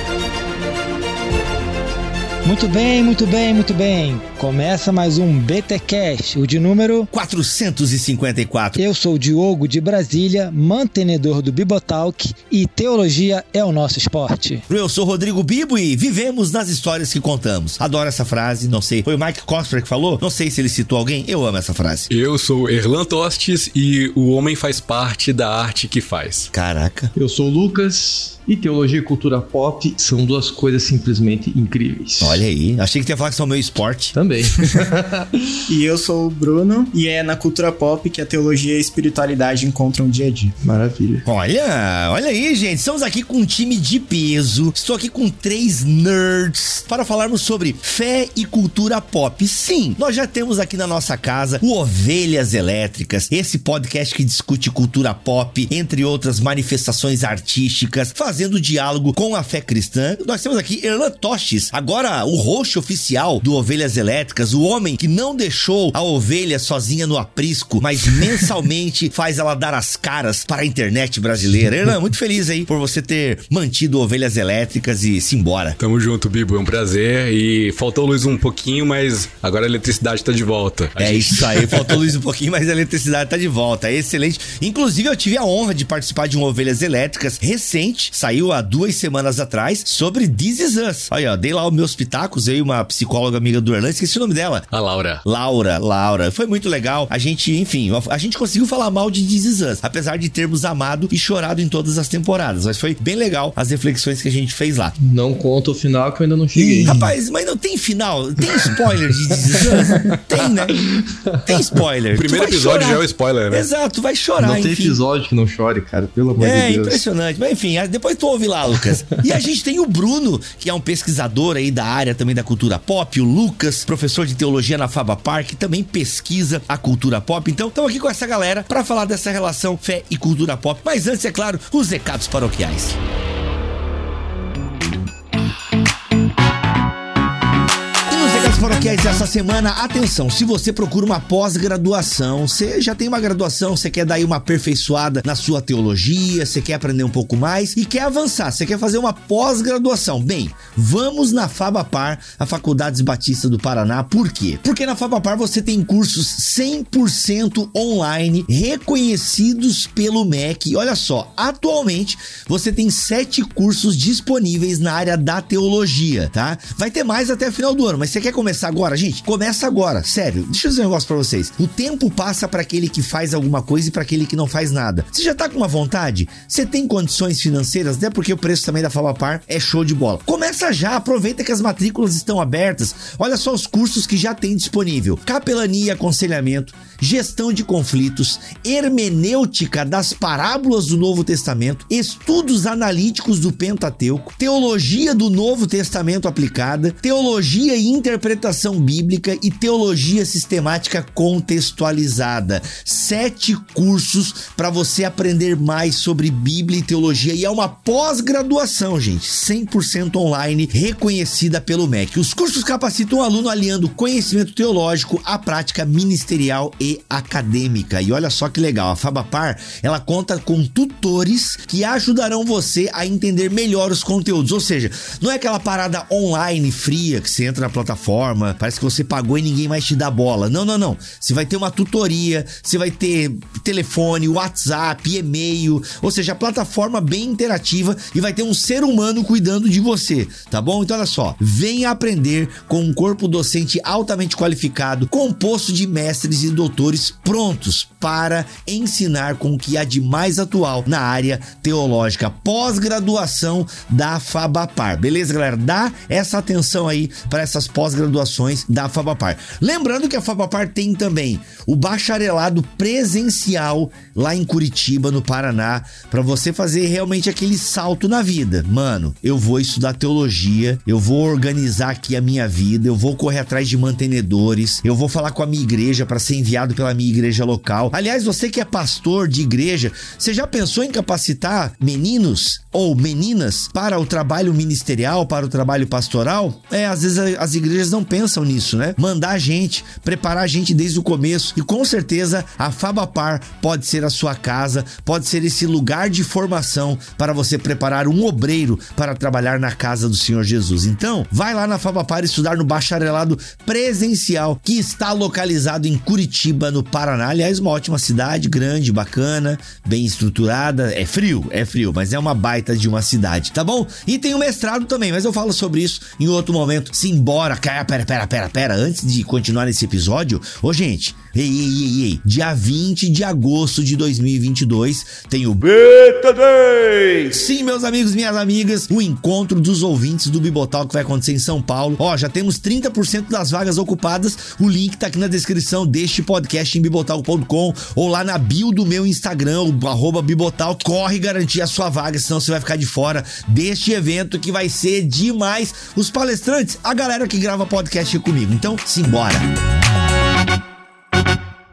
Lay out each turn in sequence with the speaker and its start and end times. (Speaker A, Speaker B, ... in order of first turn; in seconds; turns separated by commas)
Speaker A: 2.4-7.1, Speaker B: 7.1-8.8, Speaker A: 8.8-14.6, Speaker B: 14.7-22.1, Speaker C: 22.1-26.5, Speaker B: 26.5-27.1, Speaker D: 27.1-32.4, Speaker B: 32.2-34.2, Speaker D: 34.1-35.4, Speaker E: 35.7-40.5, Speaker D: 40.6-41.2, Speaker B: 41.2-75.8, Speaker C: 75.8-82.0, Speaker B: 81.0-94.6, Speaker C: 94.7-95.2, Speaker B: 95.2-104.9, Speaker D: 105.0-107.1, Speaker B: 106.6-110.8, Speaker D: 109.5-111.6, Speaker B: 111.4-115.0, Speaker C: 112.1-113.7, Speaker D: 114.4-117.0, Speaker B: 116.4-133.0, Speaker B: 138.1-349.5